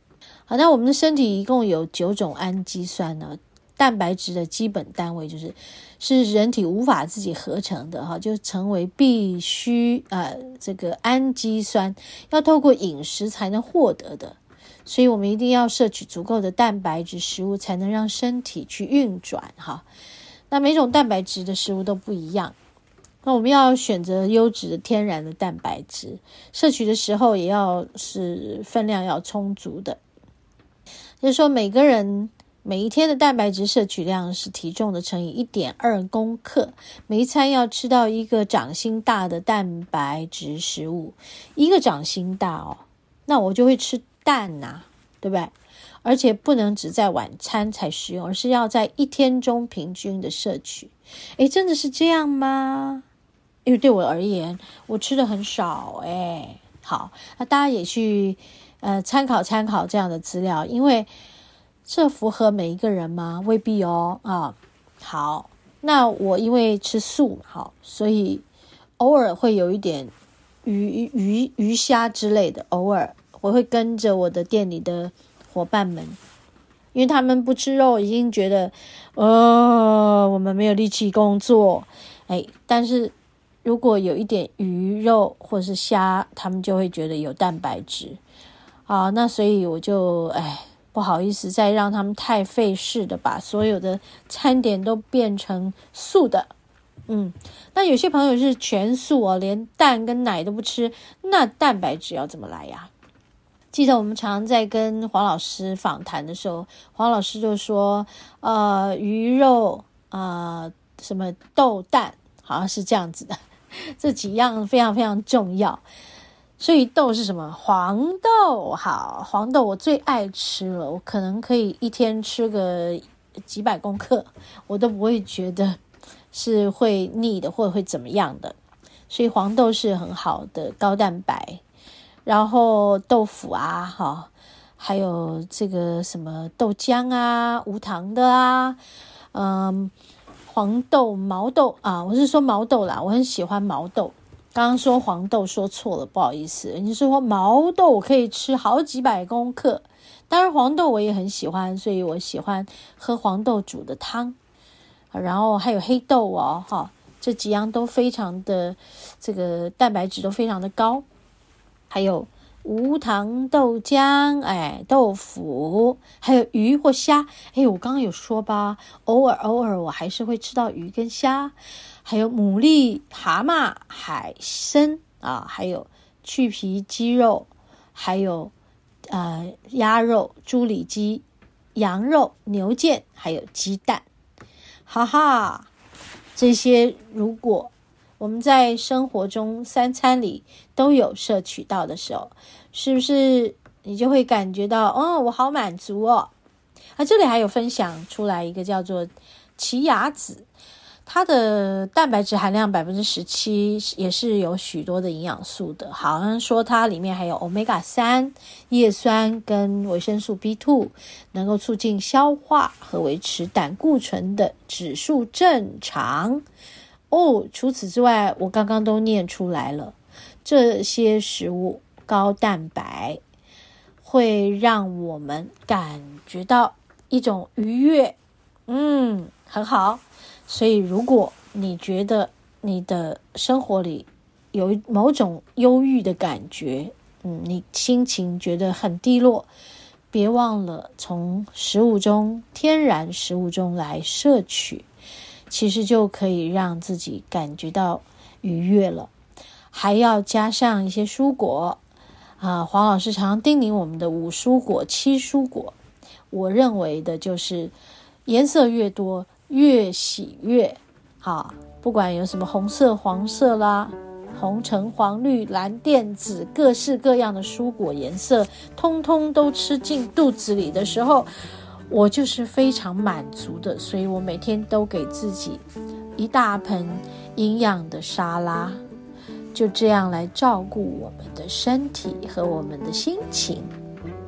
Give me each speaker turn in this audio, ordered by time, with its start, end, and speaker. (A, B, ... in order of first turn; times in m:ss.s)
0:00.5-0:19.8 A
0:20.5-0:22.6 A
0:23.2-0:30.0 A
0:31.2-0:45.5 A
0:46.0-0:53.0 A
0:53.6-1:01.1 A
1:01.9-1:08.4 A
1:09.0-1:10.1 A
1:10.6-1:16.2 A
1:16.9-1:28.2 A
1:28.9-1:36.5 A
1:37.1-1:42.9 A
1:43.7-1:55.8 A
1:56.6-2:05.8 A
2:06.3-2:08.6 A
2:09.1-2:11.6 A
2:12.2-2:18.8 A
2:19.3-2:19.9 A
2:20.5-2:34.4 A
2:35.1-2:41.0 A
2:41.9-2:58.5 A
2:59.1-3:01.2 A
3:01.8-3:04.0 A
3:04.9-3:05.7 A
3:06.4-3:16.3 A
3:17.0-3:20.5 A
3:21.0-3:36.4 A
3:37.1-3:43.2 A
3:44.0-3:48.2 A
3:48.7-3:59.5 A
4:00.1-4:04.9 A
4:05.5-4:09.1 A
4:09.7-4:11.8 A
4:12.4-4:15.8 A
4:16.3-4:17.7 A
4:18.3-4:31.3 A
4:31.9-4:35.6 A
4:36.2-4:38.8 A
4:39.5-4:43.7 A